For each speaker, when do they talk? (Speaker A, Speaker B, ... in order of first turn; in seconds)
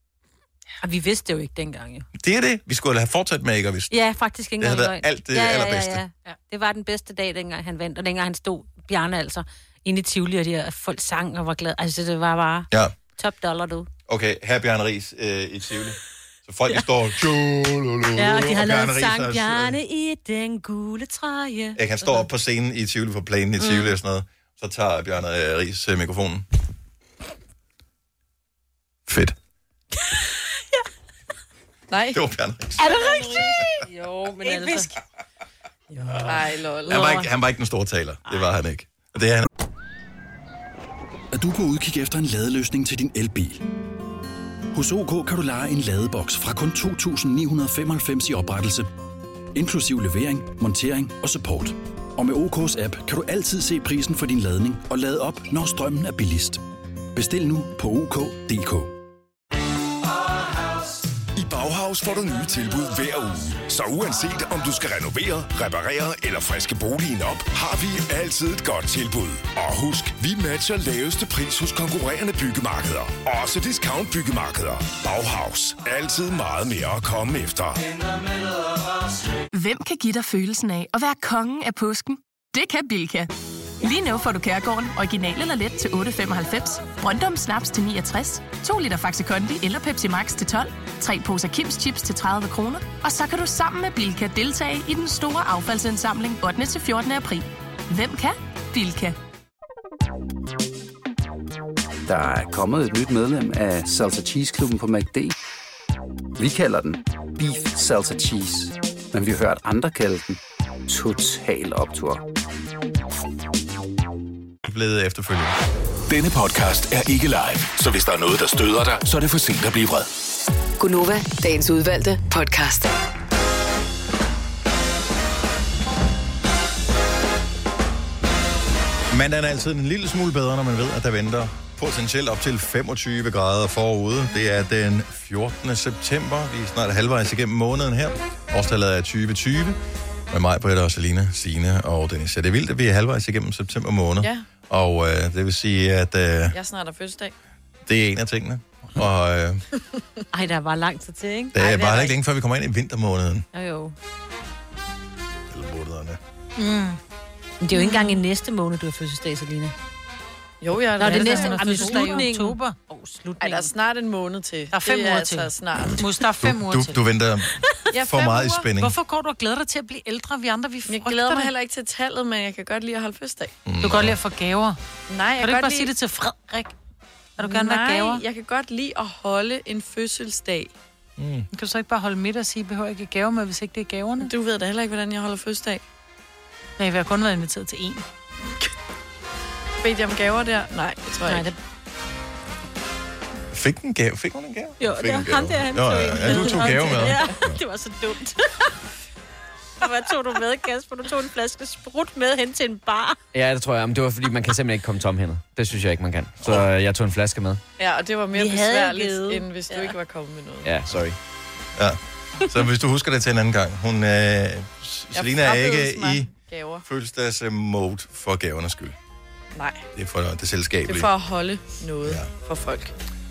Speaker A: 0.8-2.1, 3.9-13.9, 18.1-22.3, 23.6-23.9, 32.9-34.9, 150.3-152.1, 153.5-153.9, 157.6-159.7, 161.0-163.7, 194.8-198.7, 199.8-203.2, 208.3-209.9
Speaker B: 2.1-4.0, 4.6-6.0, 14.1-19.8, 21.8-26.4, 29.1-29.4, 32.1-32.9, 36.9-39.5, 114.7-115.6, 129.1-139.8, 140.3-146.6, 147.9-149.6, 151.5-153.5, 155.5-156.2, 166.4-168.9, 173.7-174.2, 181.2-181.5, 193.5-197.6, 206.4-206.7, 211.8-216.3, 216.8-218.9, 219.9-221.1, 222.0-222.3
Speaker C: 31.9-32.2, 36.2-37.1, 146.5-147.3, 160.6-162.3, 163.4-166.1, 167.9-168.7, 170.9-173.5, 175.1-175.9, 177.4-180.7, 184.2-185.8, 189.8-191.5, 207.8-210.8, 215.1-216.8, 219.5-219.9, 220.9-222.9
Speaker D: 32.8-33.6, 34.4-34.9, 156.6-157.0, 157.7-158.2, 161.0-162.8, 164.7-167.0, 168.8-171.5, 173.8-174.8, 175.4-176.7, 177.4-178.2, 181.5-184.3, 186.8-188.1, 191.3-191.5
Speaker E: 41.3-43.6, 44.7-48.9, 49.5-56.6, 57.1-59.0
Speaker F: 61.4-77.8
Speaker G: 79.5-99.2
Speaker H: 102.1-105.3, 106.4-112.2
Speaker I: 116.1-120.1
Speaker J: 120.8-122.9
Speaker K: 203.3-207.6, 210.6-211.2